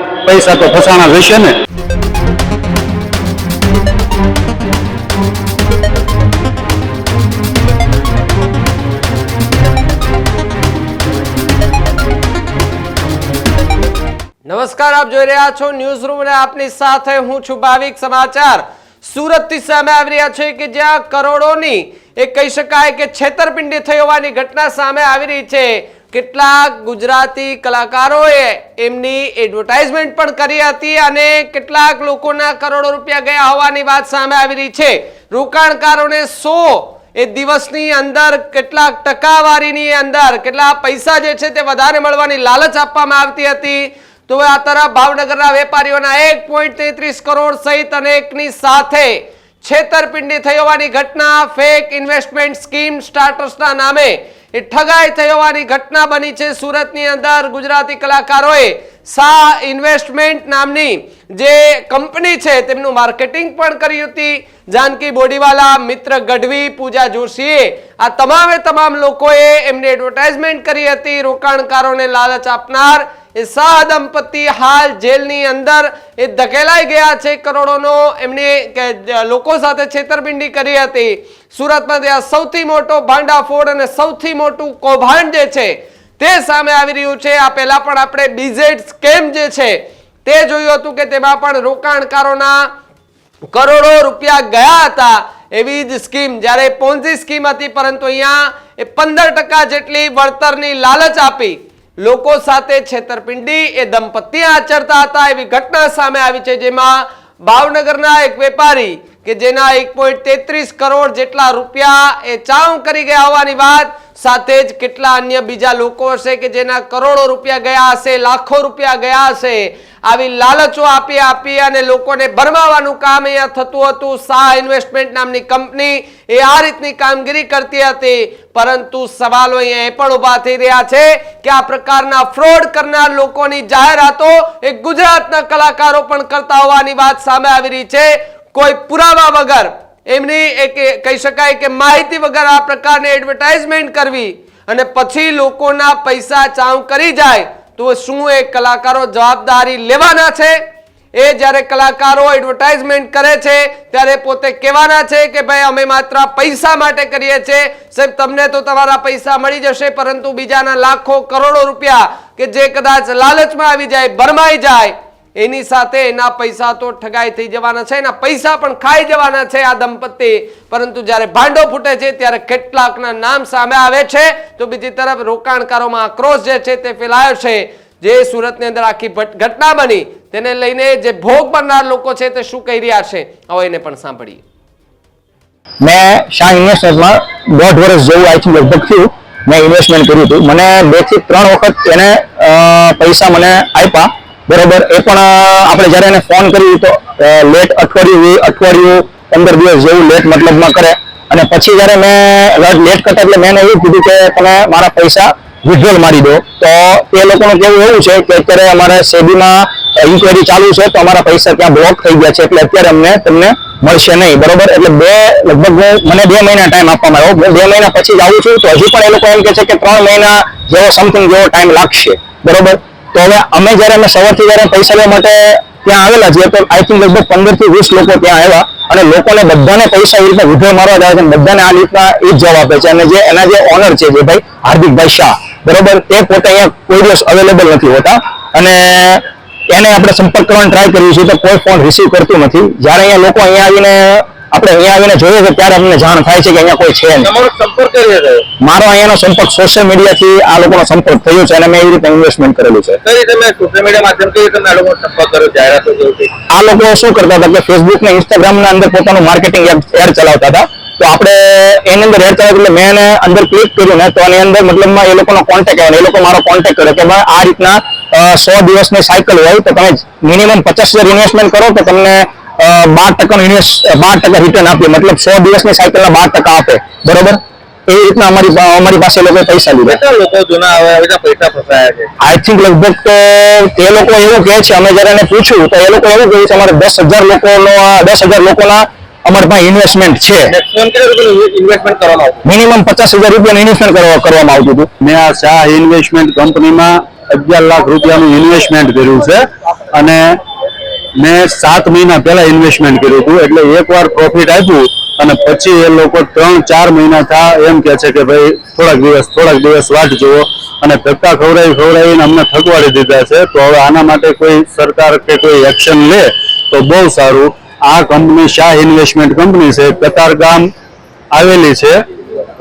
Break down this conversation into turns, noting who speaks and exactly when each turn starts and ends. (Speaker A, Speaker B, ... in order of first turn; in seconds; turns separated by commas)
Speaker A: 0.2-1.6, Speaker B: 14.4-92.6, Speaker B: 93.5-150.6, Speaker B: 151.2-184.4, Speaker C: 185.8-247.3, Speaker D: 247.2-248.4, Speaker C: 248.6-253.0, Speaker D: 253.0-256.3, Speaker C: 256.5-280.0, Speaker D: 279.8-282.1, Speaker C: 282.2-290.5, Speaker D: 290.5-292.4, Speaker C: 292.4-294.9, Speaker A: 295.0-300.2, Speaker A: 301.2-320.7, Speaker A: 321.3-322.0